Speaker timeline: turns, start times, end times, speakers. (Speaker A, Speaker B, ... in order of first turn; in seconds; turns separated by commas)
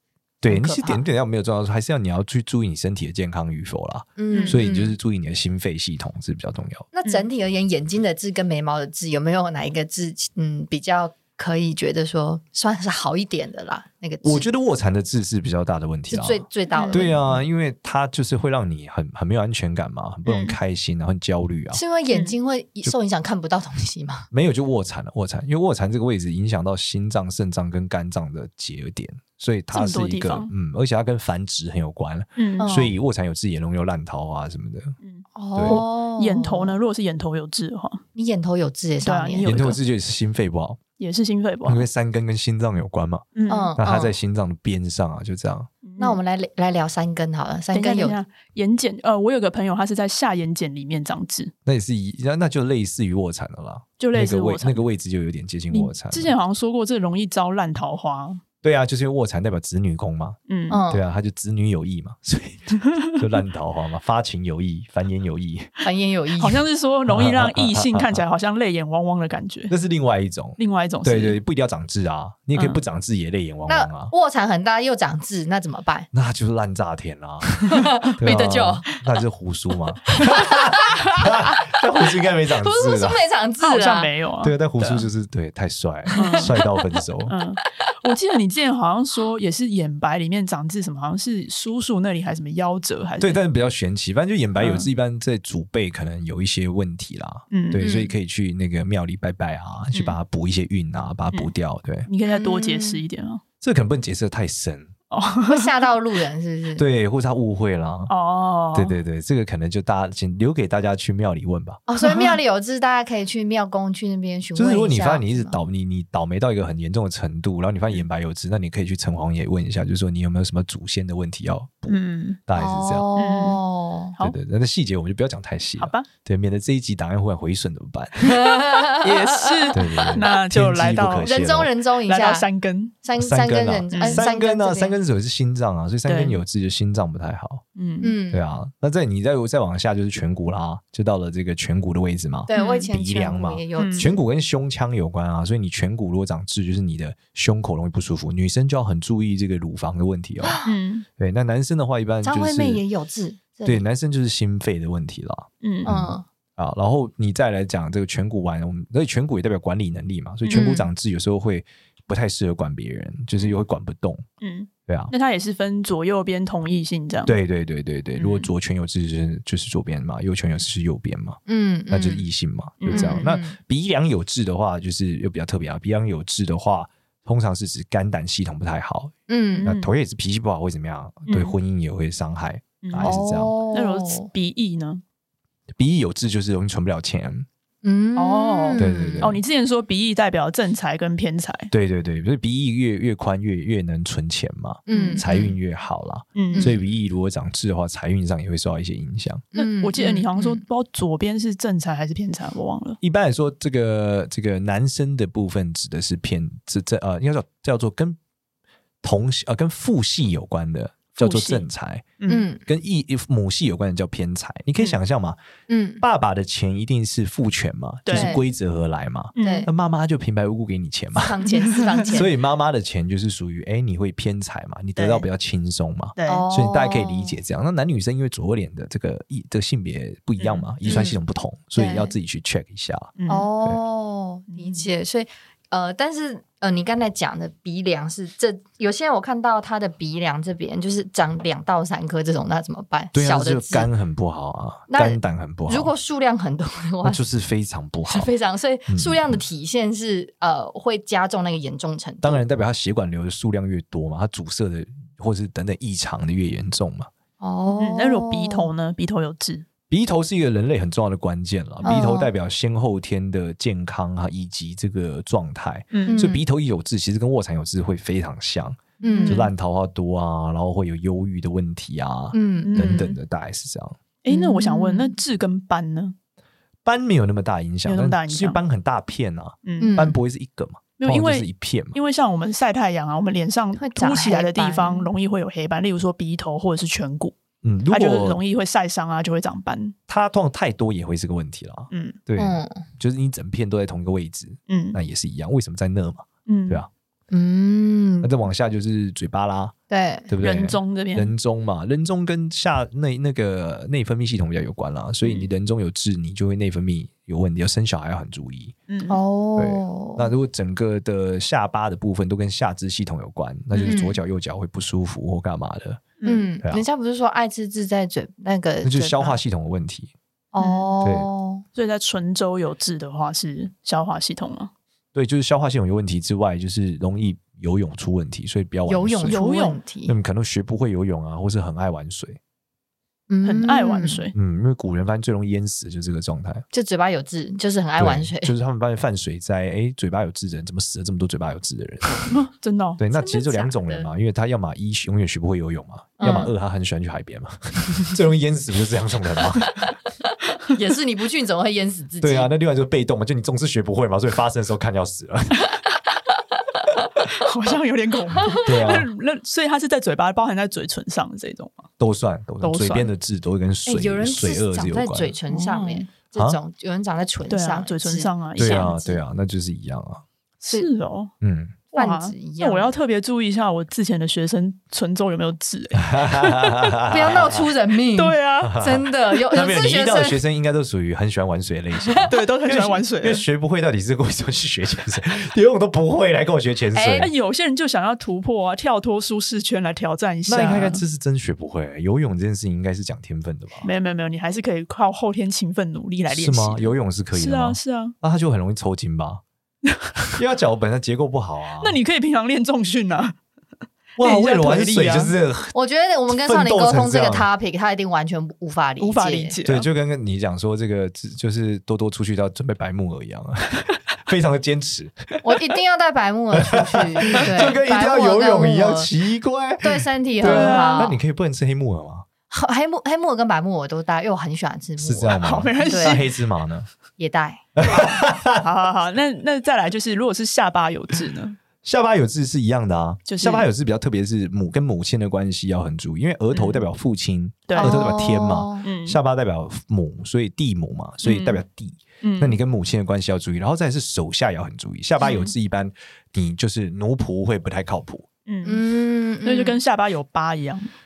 Speaker A: 0.4-6.9, Speaker B: 0.5-1.0, Speaker B: 4.2-5.0, Speaker C: 4.3-4.6, Speaker B: 6.9-14.4, Speaker A: 14.2-21.8, Speaker B: 16.1-17.3, Speaker C: 16.7-17.2, Speaker C: 20.3-20.6, Speaker B: 21.7-24.3, Speaker A: 24.3-35.0, Speaker C: 29.7-30.5, Speaker C: 32.4-32.7, Speaker B: 32.6-32.9, Speaker C: 35.0-38.0, Speaker B: 35.4-36.8, Speaker A: 35.5-35.8, Speaker B: 38.1-39.6, Speaker C: 39.0-39.8, Speaker A: 39.5-40.8, Speaker C: 41.0-41.9, Speaker A: 41.6-45.7, Speaker C: 43.4-43.7, Speaker B: 43.5-44.2, Speaker C: 45.8-46.2, Speaker B: 46.0-48.2, Speaker C: 47.7-51.5, Speaker A: 51.7-56.4, Speaker C: 54.0-54.9, Speaker C: 55.7-58.4, Speaker A: 58.6-60.4, Speaker C: 60.5-60.8, Speaker B: 60.7-61.0, Speaker A: 60.9-65.7, Speaker C: 62.8-63.2, Speaker B: 65.8-66.6, Speaker C: 66.4-69.7, Speaker A: 67.1-68.2, Speaker A: 69.7-74.1, Speaker C: 70.6-71.4, Speaker C: 72.5-72.8, Speaker B: 73.7-76.1, Speaker A: 76.1-83.2, Speaker B: 77.7-78.9, Speaker B: 80.5-80.9, Speaker B: 82.5-84.1, Speaker C: 83.6-85.1, Speaker A: 84.4-87.3, Speaker B: 86.1-86.7, Speaker C: 86.2-86.5, Speaker C: 87.3-93.4, Speaker A: 93.2-102.1, Speaker C: 94.6-94.9, Speaker C: 97.5-97.8, Speaker B: 97.8-98.2, Speaker C: 102.1-103.4, Speaker B: 102.2-103.0, Speaker A: 103.6-104.9, Speaker C: 105.1-105.7, Speaker B: 105.5-106.8, Speaker A: 106.8-108.1, Speaker C: 108.1-109.0, Speaker A: 108.7-111.8, Speaker B: 111.9-115.5, Speaker C: 112.0-112.4, Speaker A: 114.6-123.1, Speaker C: 121.9-122.4, Speaker B: 122.6-124.1, Speaker C: 123.2-123.6, Speaker A: 124.2-128.3, Speaker C: 125.8-126.1, Speaker B: 128.2-130.0, Speaker C: 129.0-131.4, Speaker A: 129.7-131.7, Speaker B: 131.2-132.5, Speaker C: 132.1-132.9, Speaker B: 133.0-135.0, Speaker A: 133.2-137.6, Speaker C: 133.9-134.2, Speaker C: 136.1-136.4, Speaker C: 137.8-138.1, Speaker B: 138.0-138.4, Speaker A: 138.3-150.6, Speaker B: 142.5-144.2, Speaker C: 142.5-142.9, Speaker C: 143.8-144.1, Speaker B: 150.4-150.7, Speaker C: 150.7-151.1, Speaker A: 151.2-152.8, Speaker B: 152.2-153.8, Speaker A: 153.7-164.2, Speaker C: 155.6-155.9, Speaker B: 155.8-156.2, Speaker C: 160.4-160.8, Speaker B: 160.5-160.8, Speaker C: 164.4-167.3, Speaker A: 164.9-165.1, Speaker A: 167.3-183.5, Speaker C: 168.2-168.5, Speaker B: 171.5-172.2, Speaker C: 172.8-173.3, Speaker B: 172.9-173.6, Speaker B: 179.3-179.7, Speaker C: 179.5-179.9, Speaker C: 181.3-181.5, Speaker C: 182.8-183.2, Speaker B: 183.0-184.3, Speaker C: 183.7-185.0, Speaker A: 185.8-187.5, Speaker B: 187.8-189.3, Speaker C: 188.2-191.7, Speaker A: 188.8-189.4, Speaker A: 191.7-199.4, Speaker B: 194.9-195.6, Speaker C: 194.9-195.2, Speaker C: 196.4-196.7, Speaker B: 199.5-200.6, Speaker C: 199.6-203.0, Speaker A: 203.0-208.2, Speaker A: 209.0-212.1, Speaker C: 211.2-211.7, Speaker C: 212.2-212.5, Speaker B: 212.3-212.6, Speaker A: 212.7-215.4, Speaker B: 215.7-216.0, Speaker A: 216.0-221.4, Speaker C: 218.1-218.4, Speaker B: 218.1-218.4, Speaker C: 219.3-219.7, Speaker B: 219.4-219.7, Speaker B: 221.2-222.3, Speaker C: 221.5-222.2, Speaker A: 222.1-233.8, Speaker C: 225.0-225.3, Speaker C: 226.2-226.4, Speaker B: 226.3-227.4, Speaker C: 230.4-231.2, Speaker B: 230.9-231.2, Speaker B: 231.8-232.1, Speaker C: 233.2-233.5, Speaker B: 233.3-243.9, Speaker C: 234.5-234.8, Speaker A: 243.1-245.9, Speaker B: 244.9-247.2, Speaker A: 247.0-248.3, Speaker B: 248.1-252.4, Speaker A: 248.9-249.4, Speaker A: 252.2-257.1, Speaker B: 257.4-258.7, Speaker C: 257.8-259.7, Speaker A: 259.9-274.0, Speaker B: 261.8-262.3, Speaker C: 265.9-266.3, Speaker B: 266.1-266.4, Speaker C: 269.0-269.5, Speaker B: 269.0-269.5, Speaker B: 272.3-273.1, Speaker C: 272.6-273.2, Speaker C: 274.2-276.2, Speaker B: 274.3-275.2, Speaker A: 276.9-282.0, Speaker C: 277.9-278.6, Speaker C: 279.7-280.0, Speaker B: 279.8-280.2, Speaker C: 281.0-287.4, Speaker B: 283.8-285.1, Speaker A: 287.6-288.4, Speaker C: 287.9-289.9, Speaker A: 290.1-296.9, Speaker C: 291.9-292.2, Speaker B: 292.4-292.8, Speaker C: 294.7-295.0, Speaker C: 296.5-296.9, Speaker B: 297.3-298.3, Speaker A: 298.2-299.7, Speaker B: 299.9-300.3, Speaker A: 300.3-308.8, Speaker C: 300.4-301.3, Speaker C: 308.9-309.2, Speaker B: 309.1-310.3, Speaker A: 309.6-316.0, Speaker C: 313.7-314.1, Speaker B: 313.8-314.2, Speaker C: 316.2-316.5, Speaker B: 316.2-319.4, Speaker A: 318.8-320.1, Speaker B: 320.5-321.6, Speaker C: 320.6-320.9, Speaker C: 321.8-324.7, Speaker A: 325.1-329.4, Speaker B: 328.9-330.1, Speaker C: 329.3-329.8, Speaker A: 330.1-332.4, Speaker B: 333.3-334.2, Speaker C: 333.4-334.4, Speaker A: 334.4-336.7, Speaker B: 336.7-338.5, Speaker A: 338.0-342.3, Speaker C: 342.3-343.0, Speaker A: 343.0-349.8, Speaker B: 343.1-344.1, Speaker B: 346.2-346.5, Speaker B: 350.6-352.5, Speaker A: 352.2-355.7, Speaker C: 357.2-361.9, Speaker A: 358.6-359.1, Speaker A: 362.0-365.4, Speaker C: 362.6-363.1, Speaker B: 363.9-369.2, Speaker C: 365.5-366.1, Speaker C: 367.5-368.9, Speaker A: 368.6-370.2, Speaker C: 370.6-371.3, Speaker A: 371.4-371.8, Speaker C: 371.9-376.9, Speaker B: 371.9-372.9, Speaker A: 376.0-377.7, Speaker B: 377.1-380.4, Speaker C: 378.1-378.8, Speaker A: 378.6-387.3, Speaker C: 382.3-383.4, Speaker B: 386.9-387.3, Speaker C: 387.2-391.0, Speaker A: 390.5-393.9, Speaker C: 393.8-398.2, Speaker A: 396.3-399.4, Speaker C: 399.9-400.4, Speaker A: 400.4-402.0, Speaker C: 401.8-403.4, Speaker C: 404.2-405.3, Speaker A: 404.2-405.7, Speaker B: 405.7-409.6, Speaker A: 406.3-407.5, Speaker C: 409.0-409.9, Speaker A: 409.6-415.1, Speaker B: 415.4-419.1, Speaker A: 416.6-422.3, Speaker B: 419.8-421.2, Speaker C: 420.4-421.2, Speaker B: 422.5-426.3, Speaker A: 425.0-426.9, Speaker C: 425.4-426.3, Speaker B: 427.2-427.6, Speaker A: 427.8-428.6, Speaker C: 428.6-431.6, Speaker A: 431.8-448.3, Speaker C: 433.3-433.7, Speaker C: 436.5-436.9, Speaker C: 437.7-438.1, Speaker B: 437.8-438.9, Speaker C: 438.8-439.2, Speaker C: 441.2-441.6, Speaker C: 442.2-442.6, Speaker C: 445.2-445.5, Speaker C: 448.5-448.8, Speaker B: 448.6-449.8, Speaker C: 449.4-450.9